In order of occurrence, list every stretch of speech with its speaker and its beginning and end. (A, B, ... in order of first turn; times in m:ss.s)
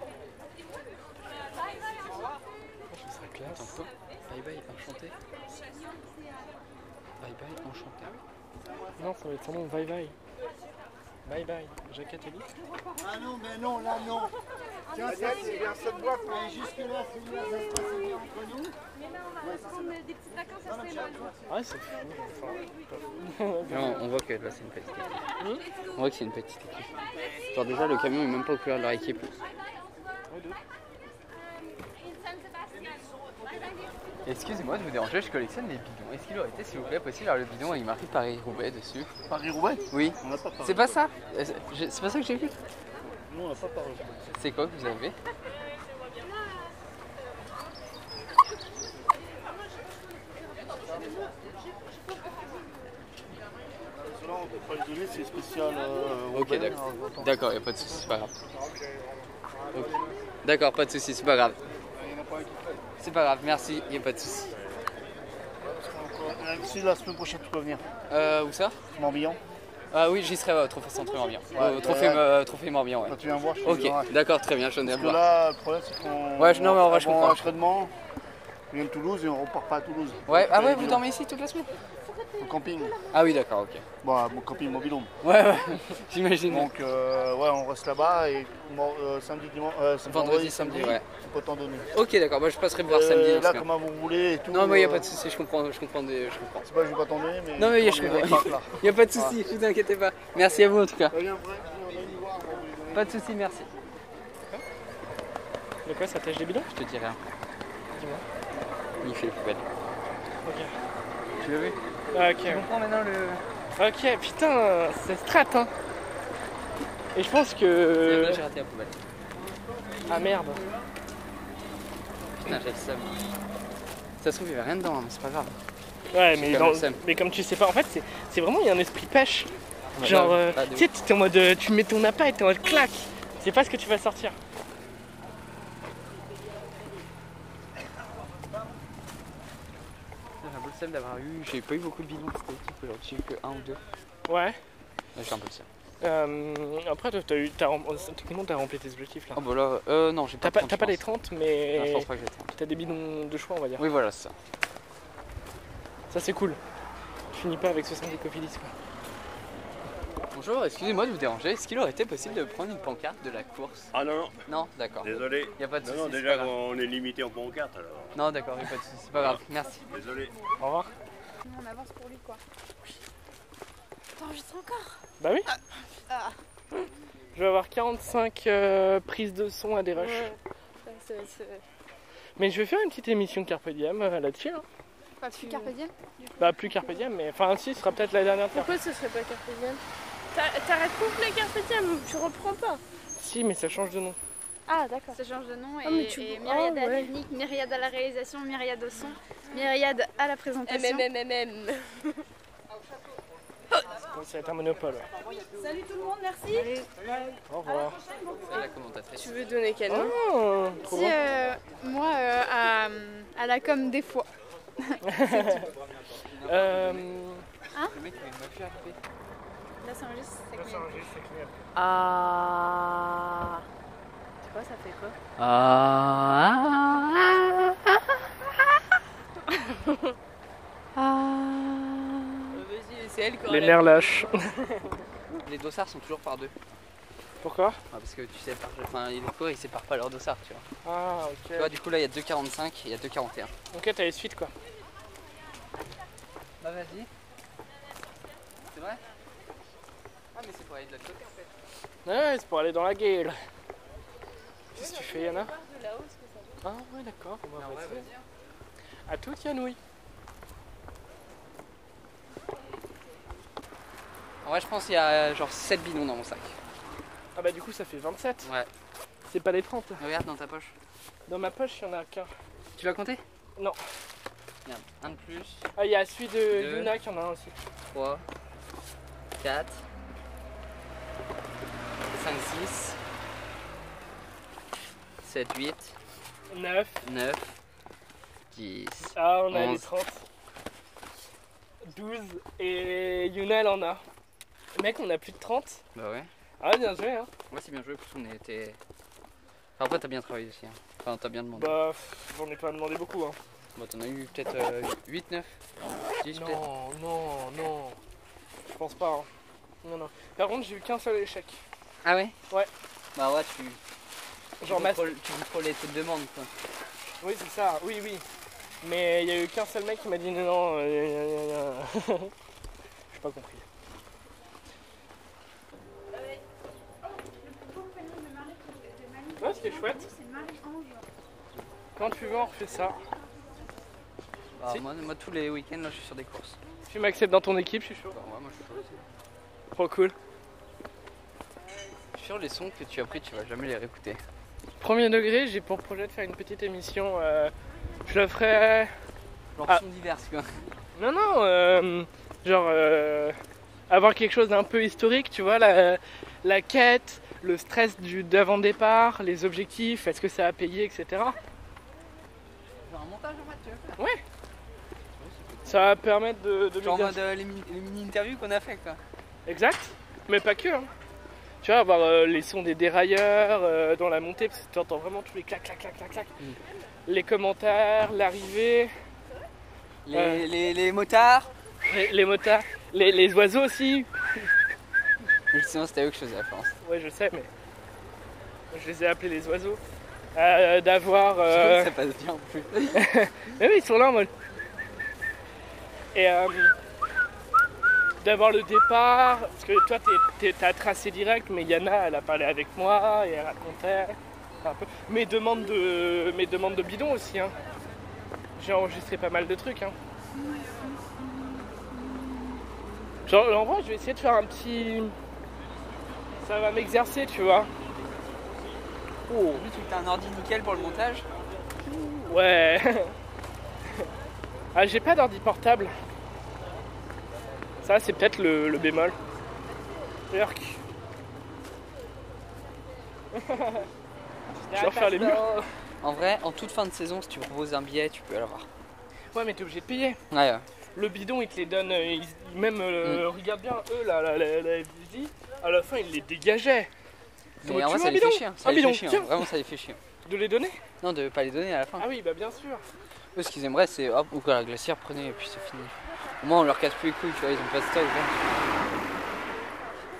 0:02.9-0:03.8 A
0:03.5-0:05.1 B
0:07.2-0:08.2 B
0:09.0-0:10.2 A
0:11.2-0:12.5 A
0:15.2-0:15.6 C
0:21.5-0:24.0 A
0:23.7-0:25.2 B
0:25.9-0:29.3 B
0:30.3-0:30.6 A
0:34.2-0:39.1 B
0:39.3-0:41.0 C
0:39.9-0:42.6 B
0:43.2-0:44.3 C
0:44.4-0:45.2 B
0:53.9-0:59.0 C
0:56.3-0:58.3 B
0:59.7-1:00.1 C
1:00.4-1:01.6 B
1:01.9-1:02.8 C
1:03.0-1:04.5 B
1:05.6-1:07.8 C
1:08.1-1:08.8 B
1:08.9-1:09.4 C
1:09.9-1:15.2 B
1:11.5-1:12.3 C
1:13.1-1:14.1 C
1:14.8-1:17.9 C
1:16.4-1:17.6 B
1:18.7-1:21.1 C
1:20.3-1:21.7 B
1:22.4-1:23.0 C
1:23.1-1:23.9 B
1:24.0-1:25.1 C
1:25.2-1:26.7 B
1:26.5-1:31.9 C
1:30.1-1:31.1 B
1:31.9-1:33.7 B
1:32.8-1:35.1 C
1:34.5-1:36.7 B
1:36.6-1:39.4 C
1:37.6-1:41.2 B
1:41.1-1:43.3 C
1:42.9-1:43.7 B
1:45.8-1:46.7 A
1:46.7-1:47.2 B
1:47.9-1:48.2 A
1:49.0-1:49.7 B
1:50.4-1:50.7 A
1:51.4-1:51.8 B
1:52.1-1:52.7 A
1:52.4-1:53.4 B
1:53.8-1:55.7 A
1:57.1-1:58.4 A
1:58.0-1:59.0 B
2:00.1-2:00.6 A
2:02.4-2:03.1 B
2:04.2-2:05.6 B
2:06.1-2:14.4 A
2:06.3-2:07.0 B
2:09.9-2:10.9 B
2:20.4-2:23.8 B
2:24.3-2:24.6 A
2:25.2-2:25.7 B
2:26.0-2:29.4 A
2:29.3-2:31.0 B
2:30.4-2:33.9 A
2:31.7-2:32.5 B
2:33.8-2:34.4 B
2:36.1-2:36.6 A
2:37.3-2:38.7 A
2:40.3-2:43.9 B
2:43.9-2:44.4 D
2:44.5-2:46.6 B
2:45.0-2:48.2 D
2:48.2-2:49.9 B
2:49.9-2:50.3 D
2:50.6-2:50.9 A
2:51.4-2:52.4 E
2:54.2-2:55.0 F
2:55.2-2:55.5 A
2:57.3-3:00.3 A
3:00.0-3:01.6 F
3:02.4-3:04.6 A
3:05.2-3:06.5 E
3:05.4-3:05.7 F
3:06.4-3:08.8 A
3:08.5-3:09.8 F
3:10.3-3:12.8 F
3:13.2-3:14.2 A
3:14.7-3:15.2 F
3:15.1-3:21.1 E
3:15.8-3:17.1 F
3:20.6-3:22.2 F
3:24.1-3:25.1 A
3:25.6-3:26.9 E
3:27.5-3:28.0 A
3:28.5-3:29.4 B
3:29.2-3:30.2 F
3:29.9-3:31.2 A
3:30.8-3:34.3 E
3:34.8-3:35.7 E
3:35.0-3:35.7 A
3:36.2-3:37.1 B
3:36.4-3:37.5 A
3:37.9-3:39.0 B
3:39.8-3:40.9 E
3:40.6-3:41.7 A
3:41.8-3:43.6 F
3:44.4-3:45.2 F
3:45.4-3:48.0 B
3:49.5-3:50.1 F
3:51.0-3:52.4 E
3:52.5-3:54.9 F
3:53.5-3:54.4 A
3:55.4-3:56.5 B
3:57.4-3:57.8 A
3:57.9-4:00.6 B
4:00.8-4:01.8 A
4:01.6-4:03.5 B
4:03.7-4:04.5 A
4:06.6-4:07.1 B
4:08.7-4:09.0 B
4:10.3-4:11.5 B
4:12.0-4:13.4 A
4:14.7-4:15.5 A
4:14.8-4:16.6 F
4:16.6-4:18.1 A
4:17.6-4:18.3 B
4:19.1-4:19.8 A
4:24.4-4:26.6 B
4:27.4-4:28.5 A
4:28.4-4:28.7 B
4:29.3-4:30.0 A
4:30.0-4:30.8 B
4:31.3-4:32.3 A
4:32.8-4:33.2 B
4:34.7-4:35.7 B
4:35.8-4:37.6 A
4:36.5-4:36.9 B
4:37.9-4:38.2 B
4:39.4-4:39.8 B
4:42.1-4:43.0 B
4:45.2-4:46.0 B
4:46.5-4:47.0 A
4:47.0-4:47.6 B
4:48.5-4:49.9 B
4:49.1-4:50.2 A
4:51.8-4:54.0 A
4:54.8-4:55.8 A
4:56.0-4:56.3 B
4:56.6-4:57.3 A
4:57.5-4:58.8 B
4:59.8-5:01.8 B
5:01.5-5:03.4 A
5:03.8-5:06.6 B
5:06.3-5:08.0 A
5:08.7-5:09.3 A
5:09.8-5:11.6 A
5:12.0-5:12.4 B
5:13.2-5:13.8 B
5:14.6-5:15.2 A
5:14.6-5:16.5 B
5:17.2-5:18.2 A
5:18.8-5:22.3 A
5:23.1-5:23.7 A
5:27.3-5:31.0 E
5:29.4-5:30.1 A
5:32.0-5:33.0 A
5:34.6-5:36.6 B
5:36.9-5:38.2 A
5:38.1-5:39.0 B
5:39.7-5:40.2 A
5:42.1-5:44.2 B
5:44.8-5:47.5 A
5:48.1-5:48.9 A
5:49.6-5:50.7 B
5:51.0-5:53.4 A
5:53.9-6:01.4 A
6:02.8-6:04.0 B
6:05.2-6:06.0 B
6:05.6-6:07.2 A
6:06.8-6:09.0 B
6:09.5-6:10.9 A
6:11.6-6:16.4 A
6:17.1-6:18.9 A
6:20.0-6:21.5 B
6:20.1-6:20.5 A
6:21.9-6:24.5 A
6:25.5-6:26.8 B
6:26.8-6:27.5 A
6:28.7-6:29.8 A
6:30.4-6:31.9 A
6:31.5-6:33.1 B
6:32.9-6:34.3 A
6:36.1-6:36.8 A
6:38.2-6:47.6 A
6:48.6-6:50.0 A
6:50.4-6:51.0 E
6:52.0-6:52.5 E
6:53.3-6:55.2 A
6:56.4-6:57.7 A
6:59.3-6:59.7 A
6:59.3-7:01.2 B
7:01.8-7:03.1 A
7:04.7-7:05.9 A
7:07.8-7:09.2 A
7:10.3-7:10.8 A
7:13.3-7:13.9 A
7:14.7-7:15.7 A
7:14.7-7:15.4 B
7:16.0-7:18.7 B
7:19.3-7:20.2 A
7:20.3-7:20.6 B
7:20.9-7:26.9 A
7:27.6-7:30.0 B
7:27.6-7:29.5 A
7:30.2-7:30.8 A
7:31.0-7:32.1 B
7:32.0-7:32.9 A
7:33.4-7:38.8 B